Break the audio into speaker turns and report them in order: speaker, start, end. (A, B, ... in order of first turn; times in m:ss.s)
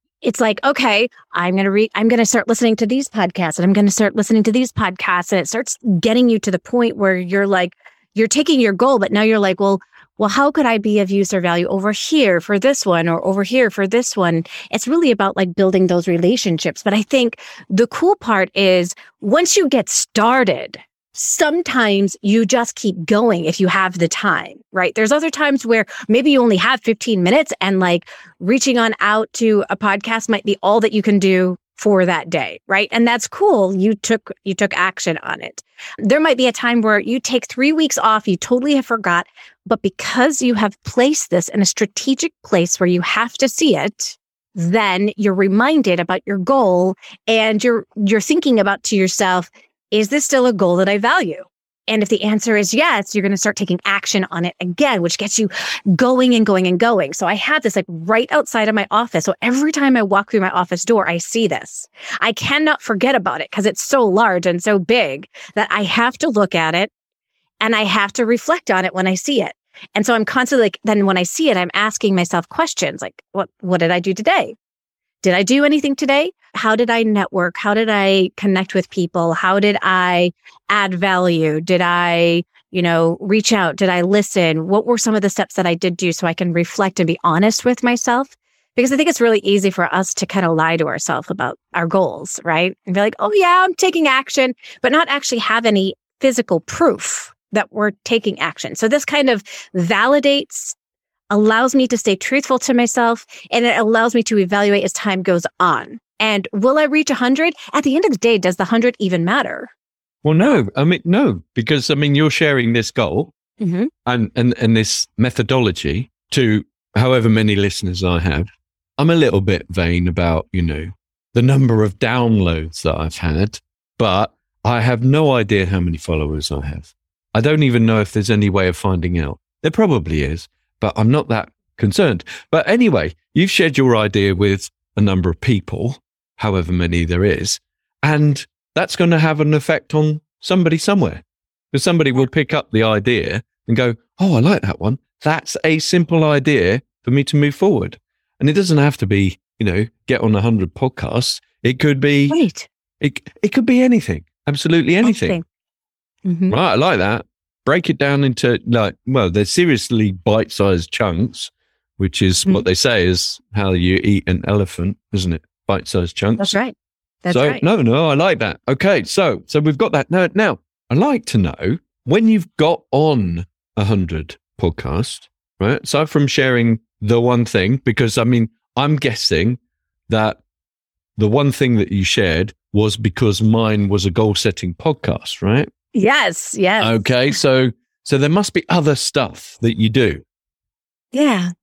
0:00.2-1:06.9 A
1:07.6-1:14.5 A
1:15.2-1:40.8 A
1:41.3-1:49.7 A
1:50.2-1:53.3 B
1:53.6-1:53.9 A
1:54.0-2:32.4 B
2:32.3-2:32.7 A
2:33.0-2:35.4 B
2:35.0-2:35.4 A
2:36.2-2:36.6 A
2:36.5-2:46.6 B
2:46.4-2:47.6 A
2:47.3-3:00.4 B
3:01.2-3:05.7 B
3:05.9-3:07.1 A
3:06.8-3:10.2 B
3:11.1-3:11.5 A